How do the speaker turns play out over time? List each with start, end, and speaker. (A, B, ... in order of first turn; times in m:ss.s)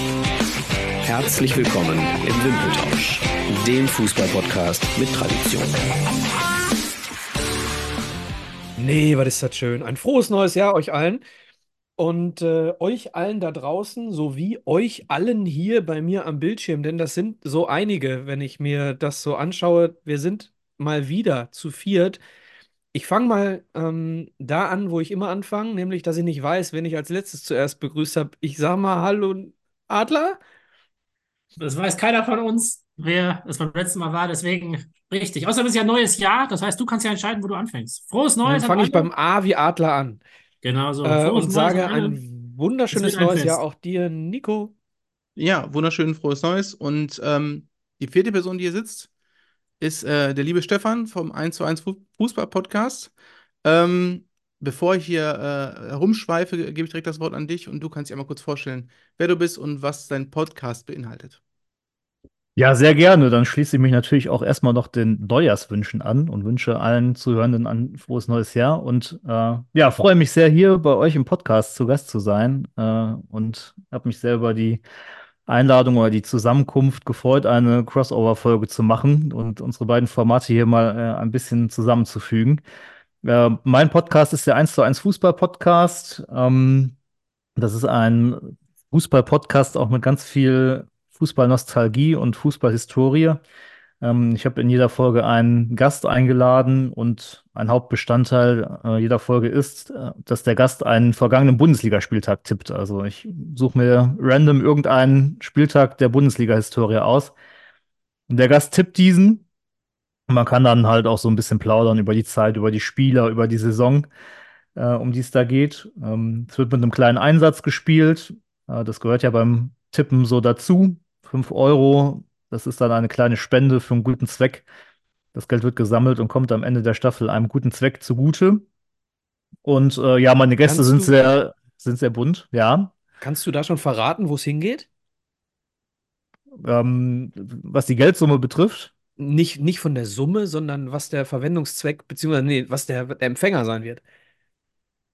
0:01.0-0:05.8 A
0:08.8-0:11.2 B
0:12.0-0:22.2 B
0:22.9-0:30.4 B
0:31.6-0:39.1 C
0:38.4-0:40.2 B
0:40.6-0:42.2 C
0:41.0-0:44.7 B
0:42.9-0:43.6 C
0:45.4-0:49.1 D
0:49.8-0:53.1 D
0:53.6-1:01.4 D
1:02.6-1:14.8 E
1:15.5-1:22.6 E
1:23.2-1:27.0 E
1:27.6-1:33.4 E
1:34.0-1:47.3 E
1:48.3-1:49.4 E
1:50.3-1:54.1 E
1:54.7-2:04.6 E
2:05.3-2:08.6 E
2:09.6-2:12.9 E
2:10.6-2:11.1 B
2:13.2-2:14.9 B
2:16.6-2:18.9 E
2:19.2-2:24.0 B